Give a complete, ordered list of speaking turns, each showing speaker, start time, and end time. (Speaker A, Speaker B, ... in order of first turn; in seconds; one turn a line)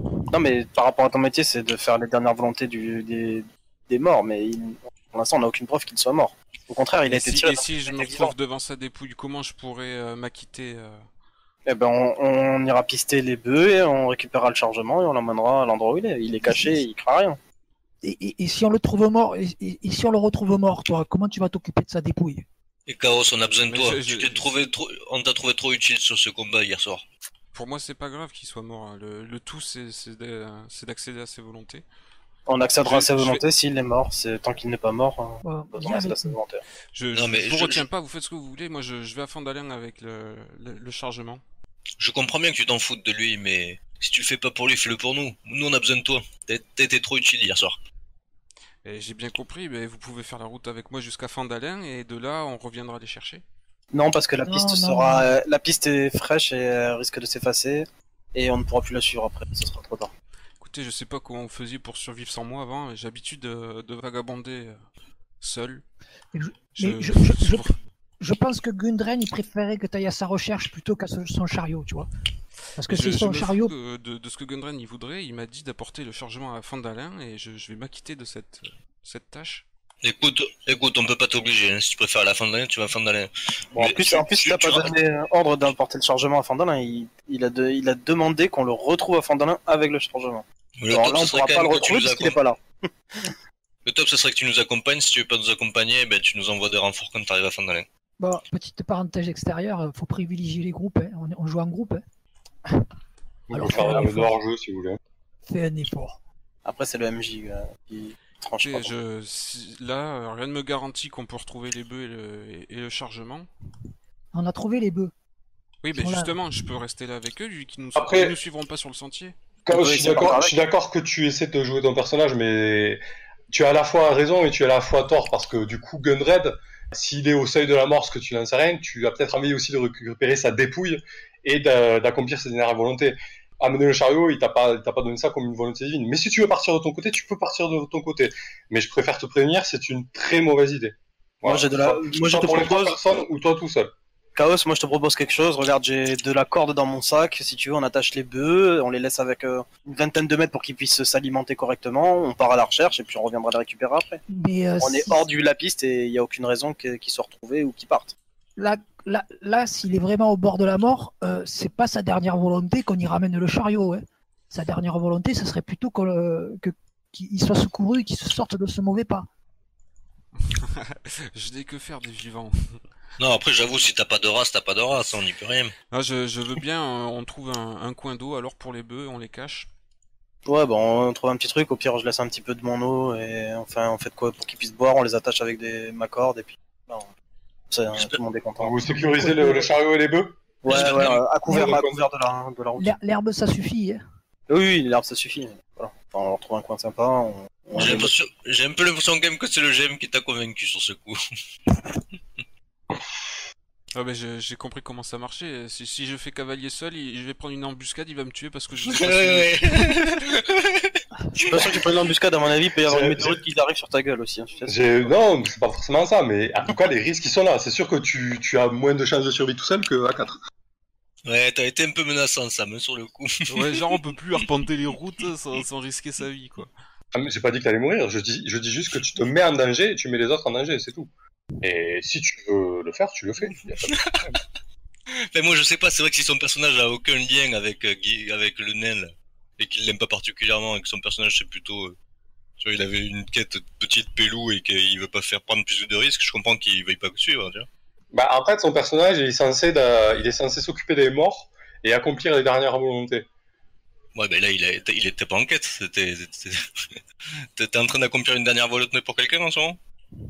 Speaker A: 0.3-8.3
Speaker B: 7.0-11.0
Speaker A: 11.7-17.4
Speaker C: 16.4-16.9
Speaker C: 18.0-22.4
Speaker D: 22.9-27.1
Speaker B: 23.7-24.5
Speaker B: 27.5-31.8
Speaker A: 32.5-36.6
Speaker B: 32.8-33.4
Speaker C: 35.4-36.4
Speaker B: 36.9-41.4
Speaker D: 37.1-37.9
Speaker D: 42.0-47.8
Speaker B: 48.8-53.4
Speaker A: 53.9-60.1
Speaker C: 54.5-55.4
Speaker B: 60.6-64.8
Speaker B: 65.4-65.8
Speaker C: 66.3-67.7
Speaker B: 66.8-67.8
Speaker C: 68.2-72.1
Speaker C: 72.8-73.7
Speaker B: 72.9-79.6
Speaker D: 80.0-84.9
Speaker A: 83.7-93.3
Speaker D: 90.8-92.4
Speaker D: 93.8-97.9
Speaker C: 98.2-102.0
Speaker E: 103.5-105.0
Speaker C: 103.5-104.3
Speaker C: 105.5-106.2
Speaker A: 106.6-108.9
Speaker B: 108.6-113.5
Speaker C: 114.3-115.1
Speaker B: 115.8-119.4
Speaker C: 115.9-116.4
Speaker E: 118.0-118.4
Speaker E: 119.7-123.0
Speaker A: 119.7-120.5
Speaker E: 123.5-143.9
Speaker A: 141.4-142.9
Speaker A: 144.3-154.2
Speaker C: 154.3-155.2
Speaker A: 154.8-158.1
Speaker C: 158.6-169.2
Speaker B: 170.5-172.8
Speaker D: 173.2-175.7
Speaker B: 175.9-179.7
Speaker A: 180.4-187.1
Speaker A: 187.7-188.8
Speaker E: 188.6-192.0
Speaker C: 188.8-189.7
Speaker A: 190.6-192.9
Speaker D: 190.7-191.2
Speaker C: 191.5-191.8
Speaker C: 192.8-194.0
Speaker A: 194.5-198.1
Speaker D: 197.7-201.2
Speaker B: 203.9-210.0
Speaker D: 208.8-211.8
Speaker A: 211.3-215.1
Speaker E: 212.8-213.4
Speaker E: 214.7-220.4
Speaker D: 221.2-223.7
Speaker B: 223.5-226.7
Speaker E: 227.1-231.1
Speaker E: 231.6-234.4
Speaker D: 233.8-234.3
Speaker D: 235.1-241.9
Speaker D: 242.6-247.7
Speaker E: 248.1-253.3
Speaker D: 254.1-256.6
Speaker D: 257.6-259.8